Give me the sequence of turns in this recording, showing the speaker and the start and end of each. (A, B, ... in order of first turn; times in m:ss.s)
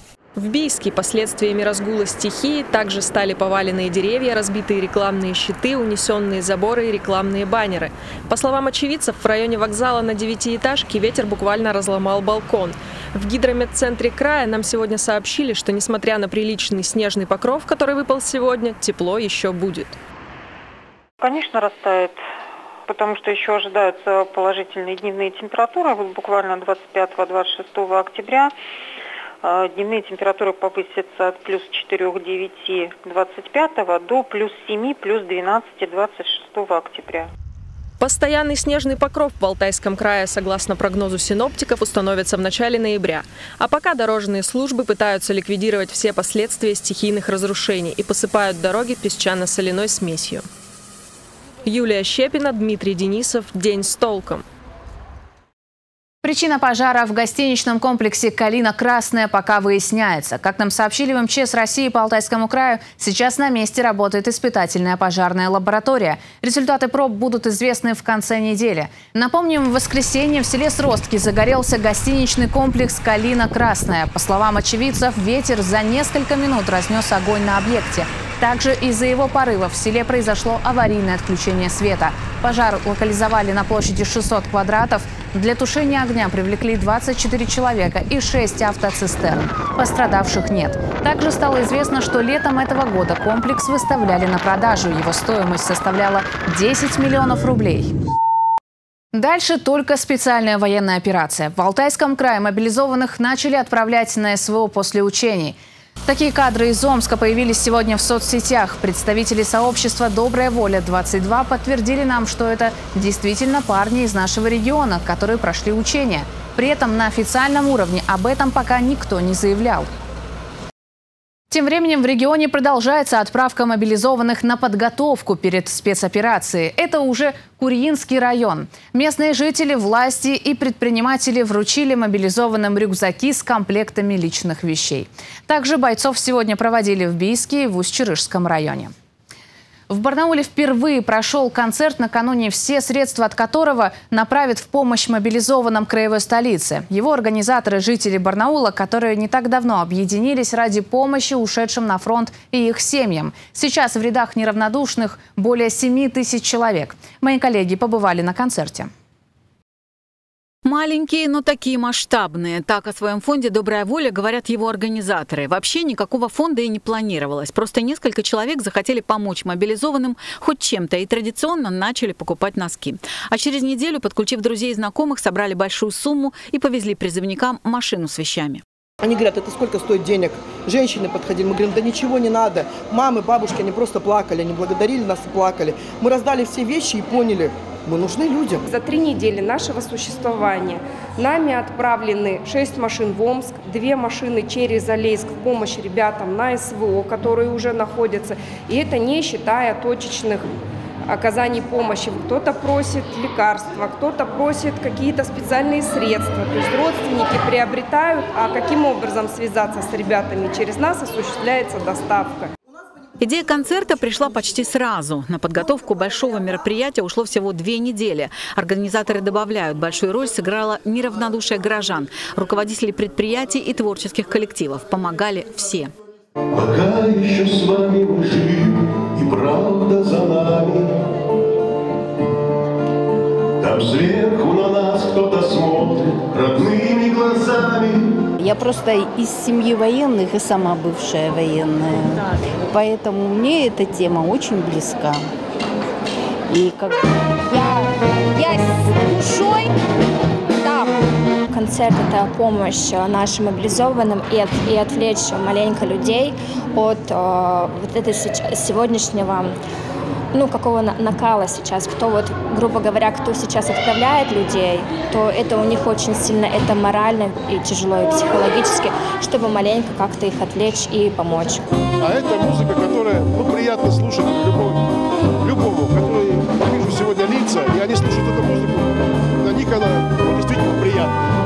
0:00.4-0:20.0 A
0:21.2-0:22.2 B
0:22.9-0:28.5 B
0:29.4-0:37.3 B
0:38.0-0:50.4 A
0:51.7-0:54.4 A
0:56.2-1:37.9 C
1:39.1-1:59.9 C
2:01.5-2:18.9 C
2:19.9-2:38.9 C
2:40.6-2:58.6 D
2:59.5-3:08.6 E
3:08.7-3:20.5 F
3:21.1-3:32.5 F
3:33.2-3:45.9 D
3:53.7-3:58.0 G
3:58.5-4:02.1 H
4:02.7-4:05.2 H
4:08.4-4:09.7 I
4:10.6-4:10.9 I
4:11.5-4:19.5 I
4:20.3-4:31.6 I
4:32.0-4:34.8 J
4:35.4-4:38.9 J
4:39.4-4:41.2 J